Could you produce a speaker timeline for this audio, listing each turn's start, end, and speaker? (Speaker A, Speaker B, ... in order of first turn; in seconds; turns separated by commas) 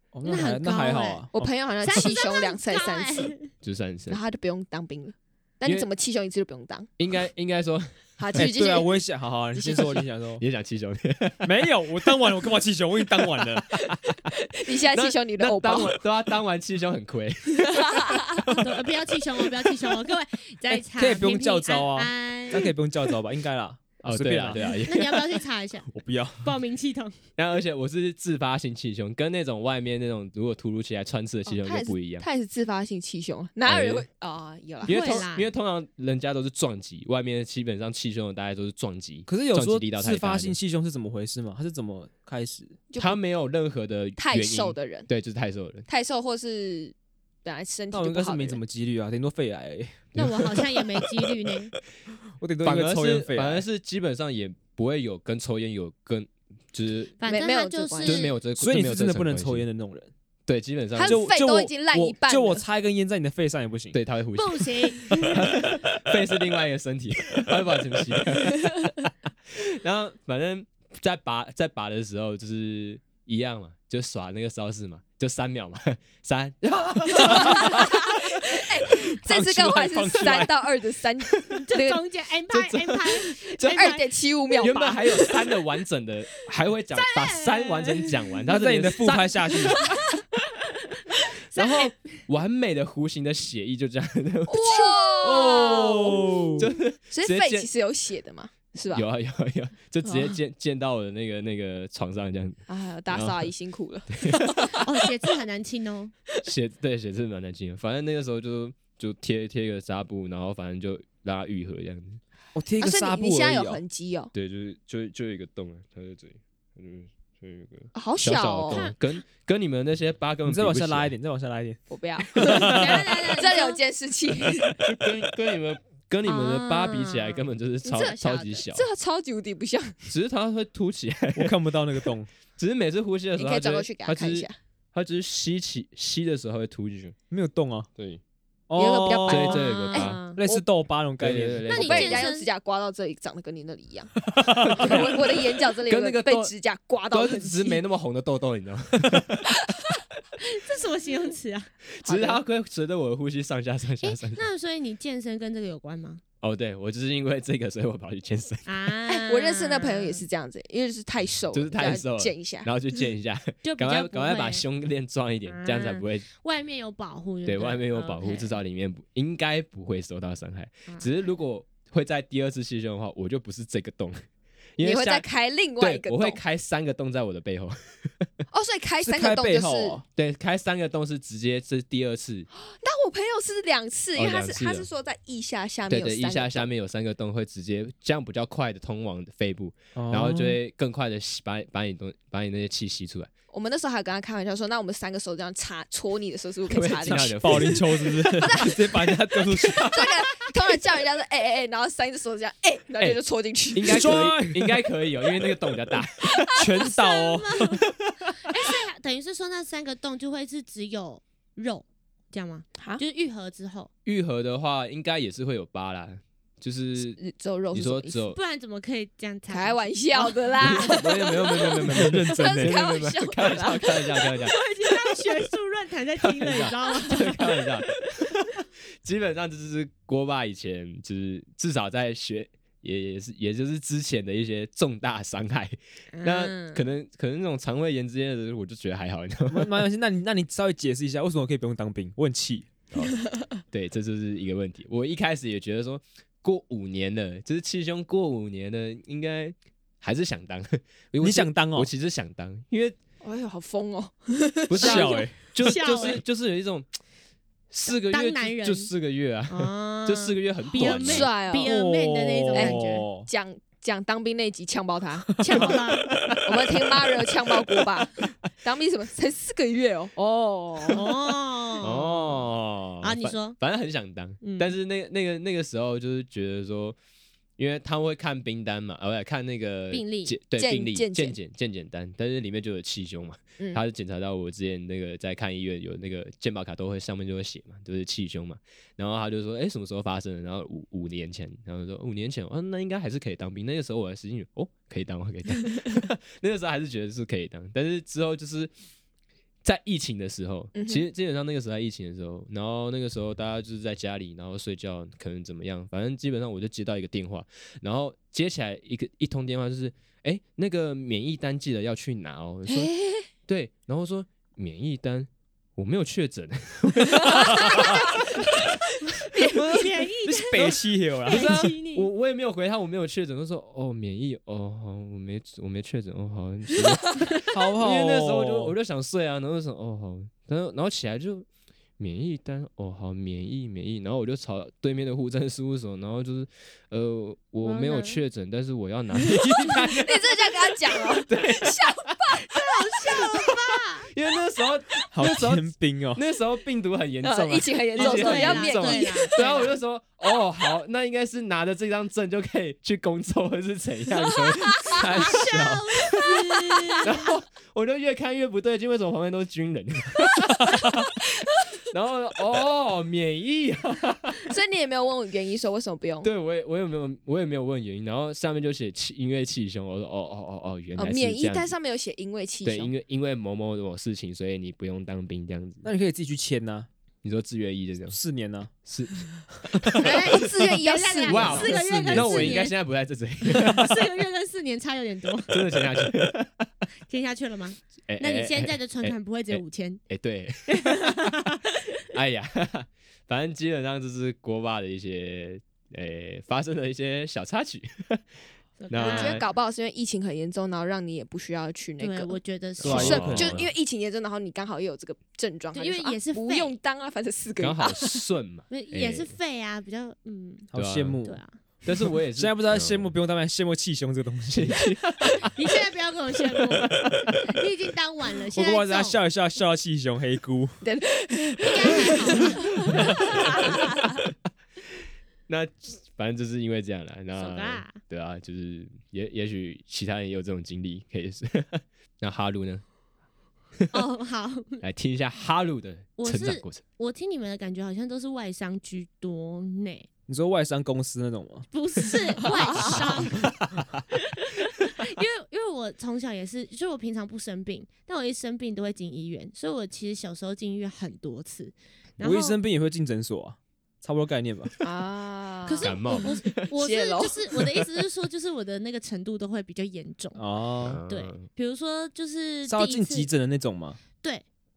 Speaker A: 0.1-1.5, Speaker B: 0.2-1.2, Speaker C: 1.3-3.3, Speaker B: 1.8-3.5, Speaker D: 3.6-4.2, Speaker C: 4.1-6.9, Speaker D: 7.0-8.5, Speaker C: 8.2-8.9, Speaker A: 8.3-10.4, Speaker C: 9.5-10.0, Speaker D: 10.4-12.2, Speaker A: 11.4-13.7, Speaker D: 13.4-18.7, Speaker C: 14.3-16.0, Speaker C: 17.6-18.5, Speaker B: 18.5-22.6, Speaker A: 21.0-24.6, Speaker D: 24.0-25.4, Speaker B: 24.8-25.9, Speaker A: 25.9-26.5, Speaker B: 26.4-27.2, Speaker D: 27.4-32.2, Speaker C: 31.5-35.2, Speaker D: 33.6-34.0, Speaker D: 34.8-40.5, Speaker B: 34.9-35.5, Speaker A: 39.3-42.8, Speaker C: 42.9-43.2, Speaker D: 43.0-45.9, Speaker C: 44.2-45.1, Speaker C: 45.9-48.6, Speaker A: 47.9-50.1, Speaker D: 50.1-51.5, Speaker B: 50.1-51.8, Speaker A: 52.4-53.6, Speaker D: 52.6-57.1, Speaker B: 57.2-58.3, Speaker C: 57.2-58.2, Speaker D: 58.0-59.6, Speaker A: 58.6-60.1, Speaker D: 60.5-61.2, Speaker C: 60.9-62.6, Speaker A: 61.0-64.0, Speaker D: 63.9-78.7, Speaker B: 64.3-65.5, Speaker C: 77.1-82.0, Speaker A: 77.2-77.7, Speaker A: 79.1-80.7, Speaker B: 81.6-85.3, Speaker D: 82.5-83.9, Speaker C: 83.6-85.3, Speaker D: 84.6-90.0, Speaker B: 86.9-88.2, Speaker A: 88.5-89.8, Speaker B: 91.2-92.2, Speaker D: 91.5-95.8, Speaker C: 94.5-99.0, Speaker A: 95.2-96.7, Speaker D: 96.5-97.7, Speaker D: 98.9-103.5, Speaker C: 100.0-100.3, Speaker C: 102.7-104.8, Speaker D: 104.1-104.7, Speaker B: 104.8-106.1, Speaker D: 106.4-112.2, Speaker A: 112.5-113.8, Speaker C: 112.8-114.3, Speaker D: 114.3-121.1, Speaker C: 117.9-118.9, Speaker B: 118.7-119.0, Speaker A: 120.4-121.8, Speaker C: 121.9-124.8, Speaker A: 122.3-123.0, Speaker B: 122.4-123.8, Speaker D: 124.7-128.8, Speaker B: 126.2-128.6, Speaker C: 128.7-130.0, Speaker D: 130.1-137.2, Speaker A: 131.3-132.3, Speaker C: 133.4-134.6, Speaker A: 137.3-137.9, Speaker D: 137.9-138.2, Speaker A: 138.7-139.6, Speaker C: 138.8-140.6, Speaker D: 139.2-140.3, Speaker B: 139.6-140.4, Speaker A: 140.3-141.7, Speaker D: 141.2-142.2, Speaker B: 141.7-142.5, Speaker C: 141.8-144.1, Speaker A: 144.4-145.0, Speaker D: 144.4-146.5, Speaker C: 144.7-147.8, Speaker D: 147.1-149.6, Speaker B: 150.4-151.7, Speaker D: 152.0-154.4, Speaker C: 152.0-152.4, Speaker B: 154.0-156.2, Speaker D: 156.4-158.9, Speaker B: 158.7-160.2, Speaker C: 159.1-162.7, Speaker D: 161.5-166.2, Speaker B: 163.6-164.6, Speaker B: 165.5-168.6, Speaker D: 167.4-174.2, Speaker D: 174.8-175.2, Speaker C: 174.8-176.4, Speaker D: 175.8-178.3, Speaker C: 178.5-180.0, Speaker A: 179.0-180.0, Speaker D: 180.2-182.5, Speaker C: 182.5-186.7, Speaker D: 184.1-184.9, Speaker D: 185.9-193.3, Speaker A: 189.9-190.6, Speaker C: 193.5-197.7, Speaker D: 196.7-198.8, Speaker A: 197.1-200.0, Speaker C: 198.4-204.2, Speaker D: 199.6-200.1, Speaker D: 203.7-206.6, Speaker A: 203.8-204.8, Speaker A: 206.5-207.8, Speaker B: 206.7-213.9, Speaker D: 208.0-208.3, Speaker D: 214.0-217.2, Speaker C: 217.2-218.2, Speaker D: 217.7-218.4, Speaker B: 218.3-221.0, Speaker C: 219.5-224.3, Speaker D: 220.6-224.6, Speaker A: 221.9-222.8, Speaker B: 224.4-227.6, Speaker D: 226.2-239.8, Speaker B: 236.2-236.8, Speaker A: 239.5-242.7, Speaker D: 243.7-253.0, Speaker A: 251.2-251.9, Speaker C: 253.2-255.2, Speaker D: 254.7-256.9, Speaker A: 254.8-255.4, Speaker B: 255.5-256.2, Speaker D: 257.7-261.3, Speaker B: 257.9-258.9, Speaker B: 259.5-263.1, Speaker C: 260.8-261.7, Speaker A: 261.6-263.3, Speaker C: 262.5-265.8, Speaker A: 265.4-265.7, Speaker B: 265.4-266.2, Speaker D: 265.7-266.6, Speaker C: 266.4-271.1, Speaker B: 270.9-272.4, Speaker D: 271.8-277.0, Speaker B: 273.0-273.6, Speaker B: 274.4-274.7, Speaker D: 277.6-298.7, Speaker B: 279.9-280.4, Speaker C: 280.6-281.4, Speaker D: 299.6-312.9, Speaker C: 300.7-301.1, Speaker C: 312.7-313.3, Speaker D: 313.4-318.6, Speaker A: 317.3-318.0, Speaker C: 317.4-318.1, Speaker A: 319.4-321.7, Speaker B: 319.5-322.1, Speaker D: 321.3-331.5, Speaker A: 327.5-328.7, Speaker D: 332.0-343.5, Speaker B: 337.6-338.2, Speaker C: 339.4-342.5, Speaker B: 342.5-344.1, Speaker D: 344.1-356.4, Speaker A: 345.1-346.2, Speaker C: 347.2-349.4, Speaker B: 347.9-349.8, Speaker B: 354.9-357.3, Speaker D: 357.0-361.1, Speaker D: 361.9-364.5, Speaker C: 364.4-366.3, Speaker D: 366.2-371.7, Speaker C: 371.0-372.9, Speaker D: 372.6-375.9, Speaker A: 375.8-376.9, Speaker D: 377.2-378.2, Speaker A: 378.1-378.7, Speaker D: 378.8-380.3, Speaker B: 380.0-382.8, Speaker C: 380.0-381.8, Speaker D: 381.2-384.0, Speaker B: 383.4-385.6, Speaker D: 385.5-386.7, Speaker B: 387.1-390.0, Speaker D: 388.1-391.3, Speaker B: 390.7-391.9, Speaker D: 392.1-398.2, Speaker B: 398.8-399.4, Speaker D: 398.9-399.4, Speaker C: 398.9-408.2, Speaker B: 402.0-403.4, Speaker D: 402.8-403.7, Speaker A: 402.8-403.6, Speaker B: 405.7-406.7, Speaker D: 407.6-409.3, Speaker B: 408.7-410.7, Speaker A: 410.7-411.4, Speaker D: 410.7-411.2, Speaker B: 411.2-411.5, Speaker D: 411.8-413.1, Speaker A: 412.3-414.9, Speaker D: 414.5-415.5, Speaker B: 415.5-419.2, Speaker D: 416.6-417.4, Speaker A: 418.5-420.8, Speaker C: 420.8-424.1, Speaker B: 421.6-423.2, Speaker D: 423.0-423.6, Speaker D: 425.0-432.8, Speaker B: 427.4-428.0, Speaker B: 433.9-434.8, Speaker D: 434.8-436.8, Speaker B: 436.2-440.1, Speaker A: 440.3-443.4, Speaker B: 441.7-443.5, Speaker C: 442.4-443.0, Speaker D: 443.1-444.0, Speaker B: 444.1-452.6, Speaker A: 452.2-454.7, Speaker C: 454.8-457.5, Speaker B: 455.6-460.4, Speaker D: 455.8-456.7, Speaker A: 460.4-461.0, Speaker D: 460.8-461.4, Speaker B: 461.1-463.3, Speaker A: 462.7-464.0